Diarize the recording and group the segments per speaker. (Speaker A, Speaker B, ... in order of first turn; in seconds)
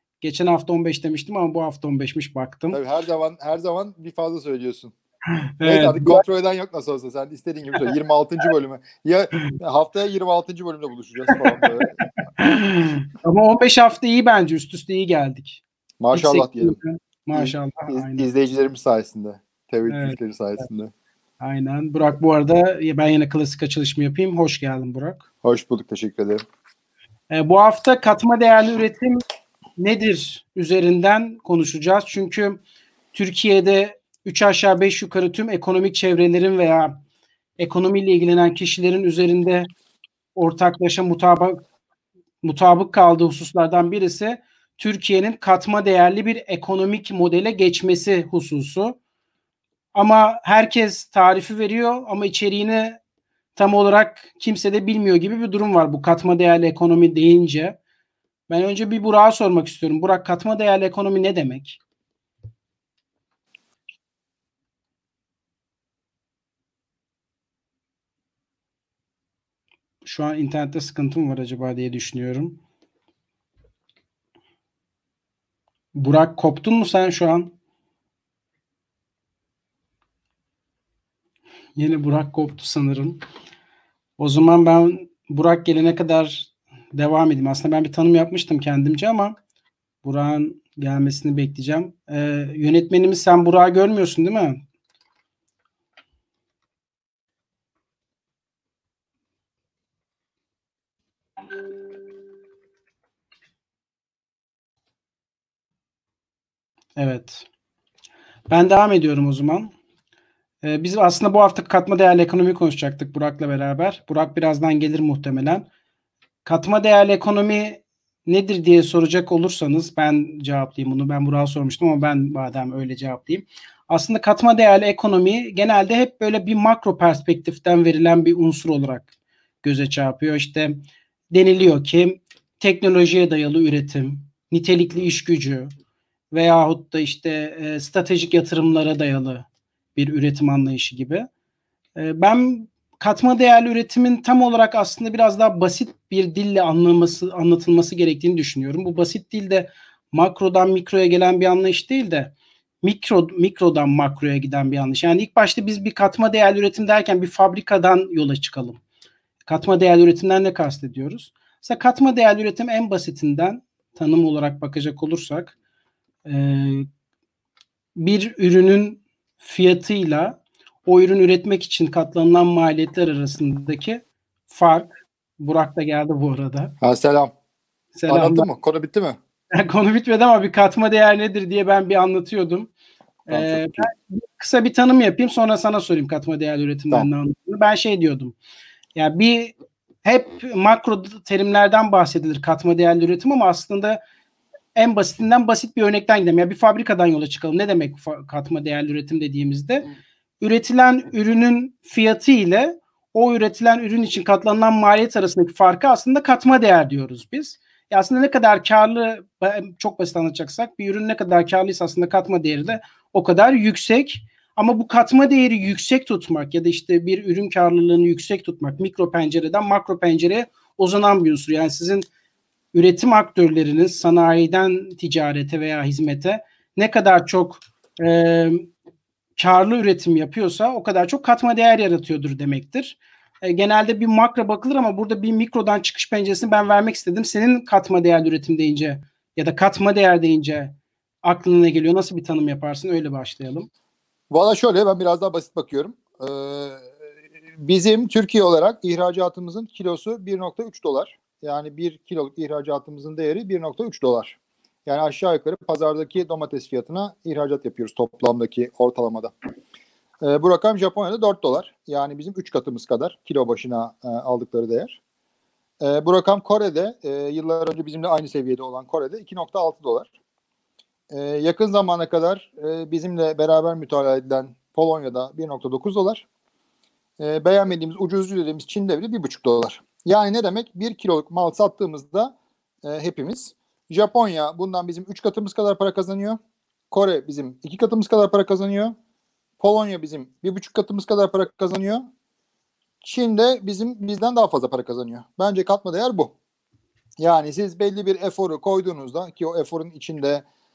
Speaker A: 0.2-2.8, 5.6-6.2, 11.3-11.8, 12.4-15.6, 16.1-18.3, 19.9-20.2, 21.4-25.2, 27.3-29.2, 29.8-32.6, 33.1-37.0, 37.6-39.7, 40.4-41.6, 42.4-49.0, 49.9-53.0, 53.5-57.8, 58.5-61.8, 70.0-72.6, 75.9-77.5, 81.8-83.2, 84.2-89.4, 90.0-94.6, 107.0-107.5, 108.5-109.7, 110.6-115.7, 116.5-129.1, 129.6-135.7, 136.3-141.3, 142.0-158.8, 159.5-165.5, 166.3-166.9, 168.0-176.8, 178.0-178.5, 179.5-182.7, 183.3-188.4, 189.0-194.0, 194.8-199.9, 200.4-222.1, 222.7-228.7, 229.4-243.7
Speaker B: 2.7-4.9, 5.6-12.0, 16.0-16.8, 17.3-20.9, 25.4-26.4, 176.8-177.3, 178.1-179.2, 183.3-183.9, 244.3-246.9, 247.6-259.3, 260.2-265.0, 265.8-270.1, 271.1-276.3, 277.2-286.4, 286.9-288.9, 289.6-292.0, 293.0-296.3, 297.2-300.4